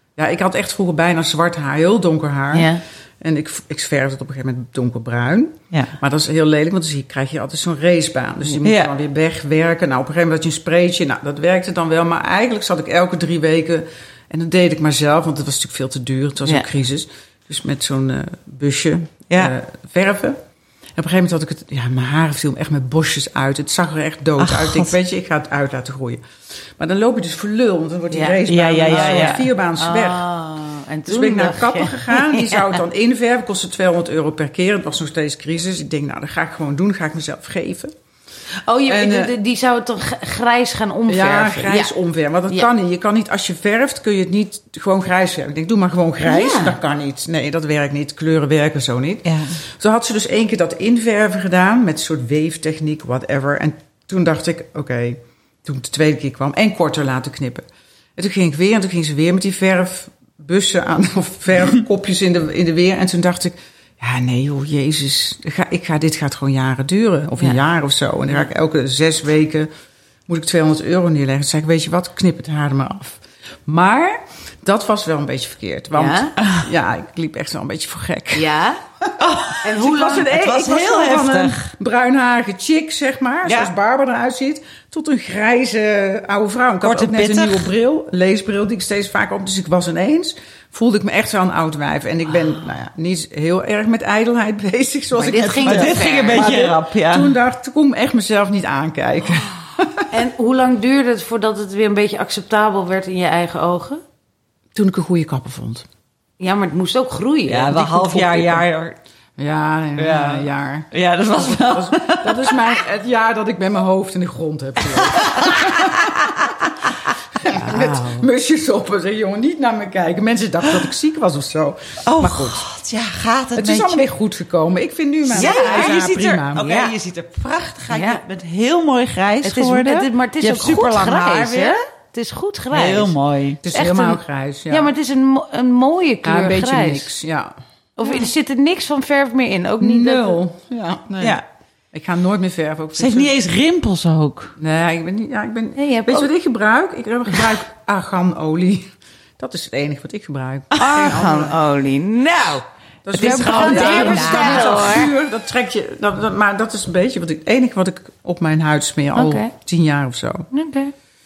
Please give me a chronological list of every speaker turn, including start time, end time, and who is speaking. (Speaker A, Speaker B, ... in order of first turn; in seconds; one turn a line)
Speaker A: 0.2-20.4
Speaker B: 2.5-2.8
Speaker C: 8.6-8.9
Speaker A: 21.0-26.2
Speaker C: 24.4-24.9
Speaker A: 26.8-30.2
Speaker B: 28.1-32.8
Speaker C: 28.5-29.5
Speaker A: 31.1-37.9
Speaker B: 38.7-41.9
Speaker A: 38.9-39.3
Speaker A: 41.1-57.6
Speaker B: 46.3-46.8
Speaker C: 49.2-49.6
Speaker A: 58.2-69.7
Speaker A: 70.3-78.5
Speaker B: 76.0-76.3
Speaker B: 78.3-78.8
Speaker C: 79.2-81.7
Speaker B: 79.6-80.3
Speaker A: 79.8-100.1
Speaker C: 83.5-83.7
Speaker C: 86.8-87.7
Speaker B: 95.2-96.6
Speaker C: 95.3-97.3
Speaker B: 100.1-104.0
Speaker A: 104.8-105.9
Speaker B: 106.4-108.3
Speaker C: 107.5-109.0
Speaker A: 108.0-108.6
Speaker A: 109.4-116.5
Speaker C: 110.0-112.8
Speaker C: 115.2-116.7
Speaker A: 117.4-122.6
Speaker B: 117.4-118.3
Speaker C: 122.0-124.1
Speaker A: 123.6-126.7
Speaker C: 125.3-131.8
Speaker B: 125.4-126.0
Speaker B: 127.9-128.2
Speaker B: 129.4-133.2
Speaker C: 132.7-133.6
Speaker A: 133.6-134.9
Speaker B: 133.7-137.1
Speaker A: 136.2-137.5
Speaker B: 138.0-140.4
Speaker A: 139.8-141.4
Speaker A: 141.9-143.3
Speaker C: 143.0-144.5
Speaker A: 144.6-151.6
Speaker B: 145.8-146.3
Speaker B: 150.8-155.1
Speaker A: 153.1-160.5
Speaker C: 153.1-155.1
Speaker B: 159.2-159.5
Speaker B: 160.5-160.9